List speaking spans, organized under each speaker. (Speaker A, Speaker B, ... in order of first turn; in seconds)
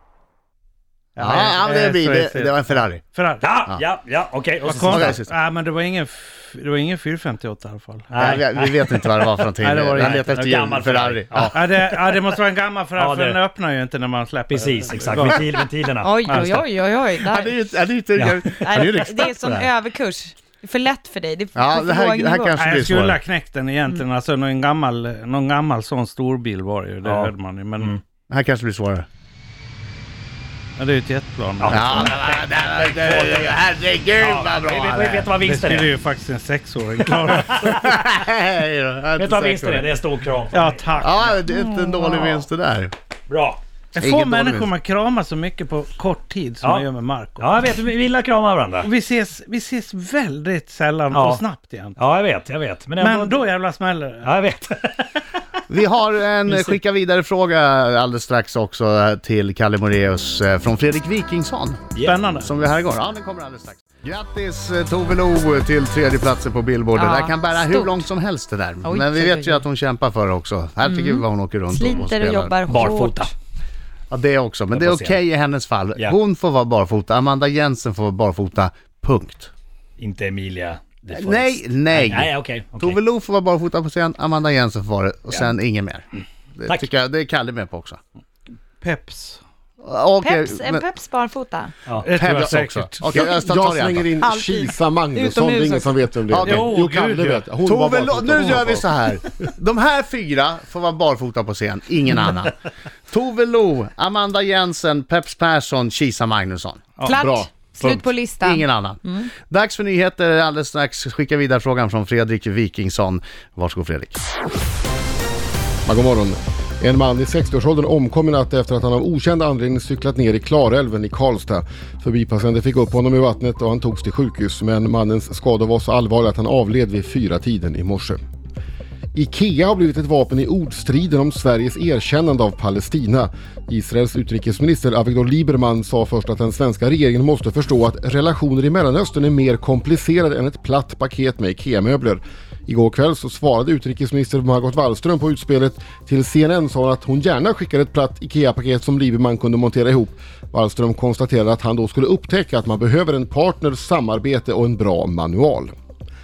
Speaker A: 1.1-3.5, 4.6-8.4, 9.6-10.3, 11.5-15.5, 16.2-16.6, 22.6-27.9, 30.8-32.2, 35.4-37.8, 40.5-41.4, 43.9-47.5, 48.8-52.0, 53.0-54.3, 62.0-62.5, 88.8-89.4, 92.0-93.1, 96.4-97.5
Speaker B: 1.2-3.0, 4.8-5.3, 8.2-11.5, 17.2-19.7, 21.5-23.2, 28.3-29.1, 31.6-35.3, 37.5-39.9, 41.0-42.9, 44.0-44.7, 55.7-72.6, 74.1-79.5, 81.1-88.0, 89.8-90.8, 92.1-94.1, 96.3-96.7, 97.6-106.9, 107.8-114.2
Speaker C: 3.4-5.2, 8.1-9.2, 9.9-12.2, 12.9-13.4, 14.5-16.1, 27.0-28.0, 31.6-32.2, 33.1-33.4, 34.2-35.9, 37.4-37.9, 39.1-41.0, 43.3-43.6, 46.6-46.9, 47.4-48.9, 51.1-51.4, 52.0-53.4, 54.2-55.1, 56.4-56.8, 72.7-73.3, 74.7-75.2, 80.0-83.0
Speaker D: 16.0-17.7, 18.6-22.5, 41.5-42.4, 66.9-68.0, 68.8-69.6, 70.8-73.3, 90.2-91.7, 94.2-96.1, 107.0-109.3
Speaker E: 93.1-99.3, 107.1-107.6, 115.8-128.2, 129.1-155.7